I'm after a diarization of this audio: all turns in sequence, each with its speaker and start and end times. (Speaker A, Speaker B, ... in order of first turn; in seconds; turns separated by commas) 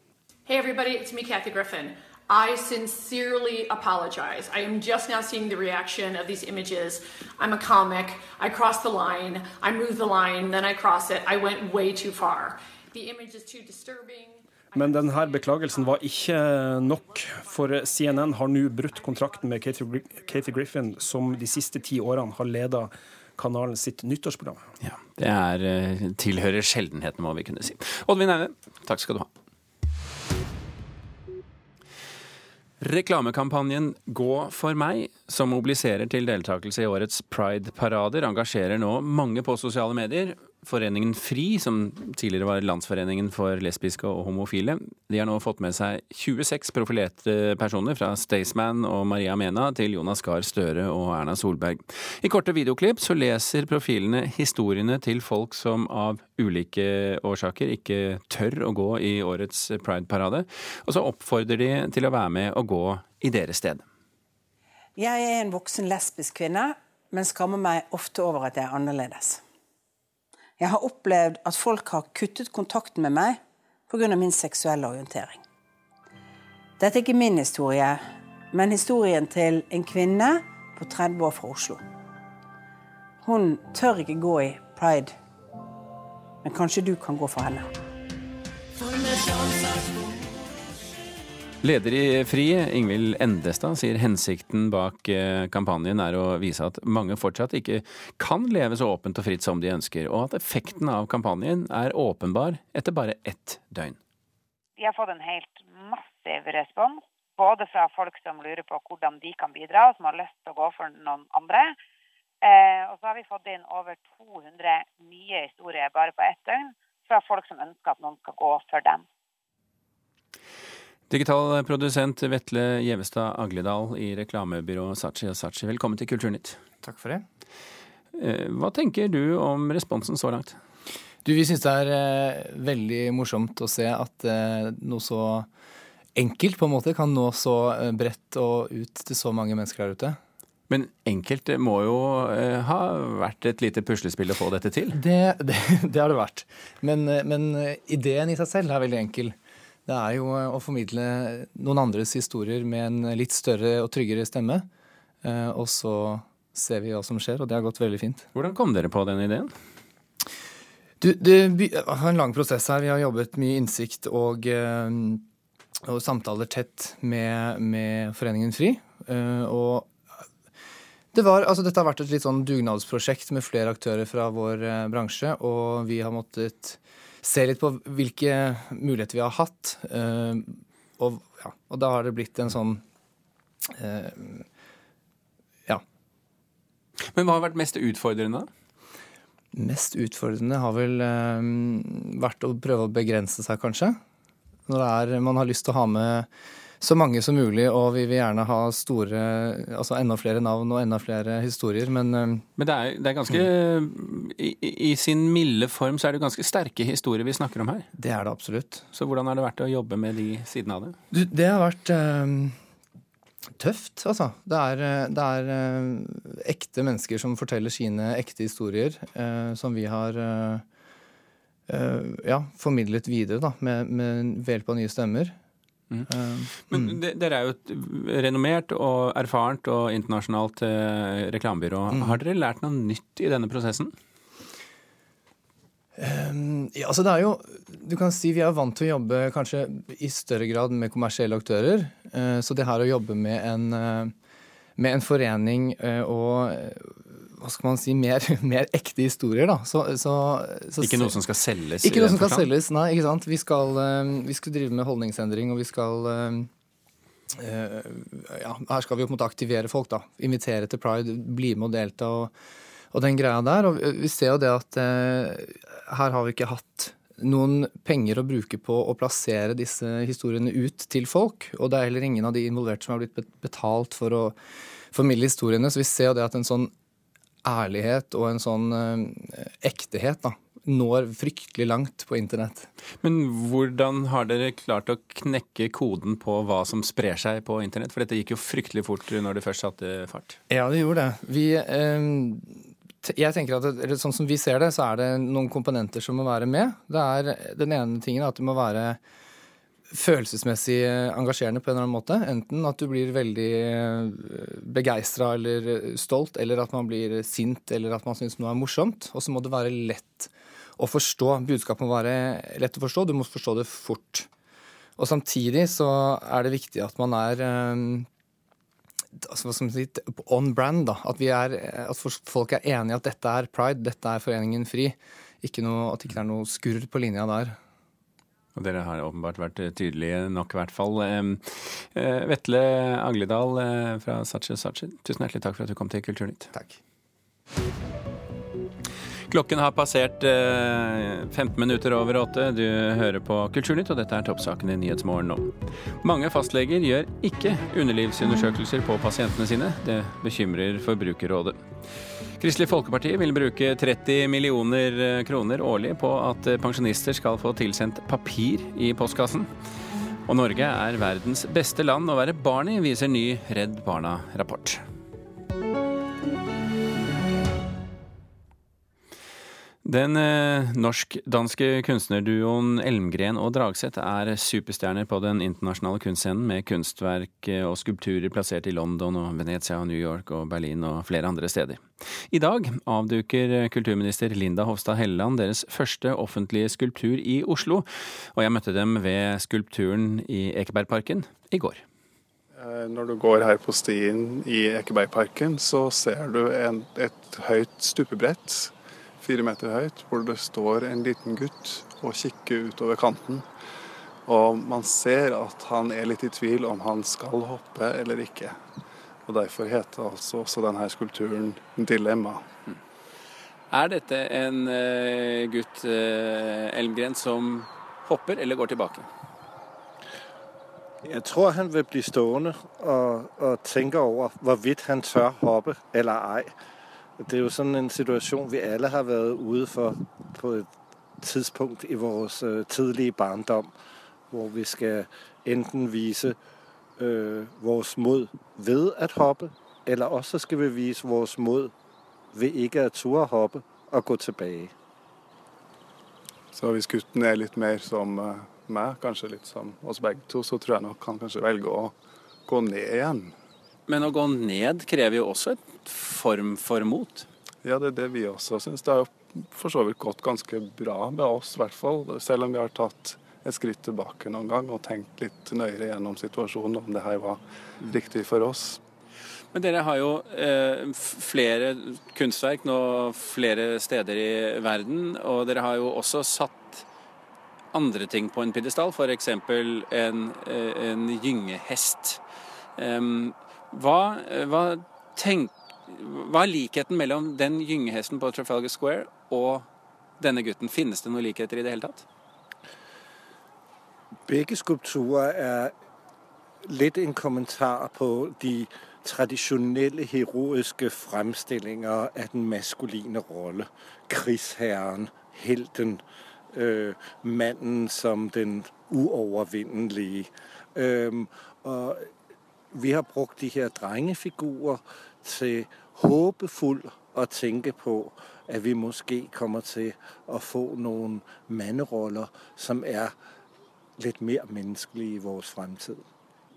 Speaker A: 0.5-22.0, Speaker B: 14.7-24.6, Speaker C: 24.8-29.3, Speaker C: 32.8-63.8, Speaker D: 65.0-69.4, Speaker D: 70.6-75.4, Speaker D: 76.8-81.8, Speaker D: 83.2-85.1, Speaker D: 86.4-87.7, Speaker C: 91.6-104.0, Speaker E: 104.8-111.8, Speaker E: 112.4-119.0, Speaker C: 121.1-126.6, Speaker F: 126.8-127.2, Speaker C: 128.1-130.6, Speaker F: 131.2-135.5, Speaker F: 136.2-140.2, Speaker C: 140.7-145.0, Speaker F: 144.9-154.7, Speaker F: 155.2-158.3, Speaker C: 158.3-159.5, Speaker F: 161.0-165.2, Speaker F: 165.8-169.9, Speaker F: 171.1-182.8, Speaker F: 183.7-184.4, Speaker C: 187.1-188.5, Speaker F: 189.5-194.0, Speaker F: 194.7-196.3, Speaker F: 196.8-202.4, Speaker C: 202.6-207.9, Speaker F: 207.9-208.8, Speaker C: 208.9-210.9, Speaker F: 211.1-212.6, Speaker F: 213.6-220.6, Speaker F: 221.7-225.3, Speaker F: 226.1-227.0, Speaker C: 226.6-233.9, Speaker F: 231.9-232.2, Speaker F: 235.9-244.1, Speaker F: 244.8-251.2, Speaker C: 250.8-252.5, Speaker F: 251.8-256.5, Speaker F: 257.3-262.3, Speaker F: 262.9-274.4, Speaker F: 274.9-276.7, Speaker F: 277.4-282.7, Speaker C: 283.0-290.4, Speaker F: 290.5-299.0, Speaker F: 299.9-314.3, Speaker F: 315.0-318.1, Speaker F: 319.2-327.6, Speaker C: 328.5-336.5, Speaker C: 339.3-351.6, Speaker C: 352.4-359.5, Speaker C: 360.3-364.8, Speaker C: 369.8-391.8, Speaker G: 392.5-403.4, Speaker G: 404.3-408.6, Speaker G: 409.2-412.4, Speaker C: 413.7-419.1, Speaker H: 421.0-426.5, Speaker H: 427.2-430.7, Speaker H: 431.2-433.7, Speaker H: 434.3-436.4, Speaker H: 437.0-441.7, Speaker H: 442.3-444.7, Speaker G: 446.5-451.9, Speaker G: 452.4-453.3, Speaker C: 453.9-457.3, Speaker G: 457.6-468.8, Speaker C: 469.5-476.8, Speaker C: 477.7-482.2, Speaker C: 482.8-489.7, Speaker C: 490.2-492.0, Speaker H: 494.3-495.7, Speaker H: 496.6-506.0, Speaker H: 506.5-512.1, Speaker H: 512.7-523.1, Speaker H: 524.0-526.0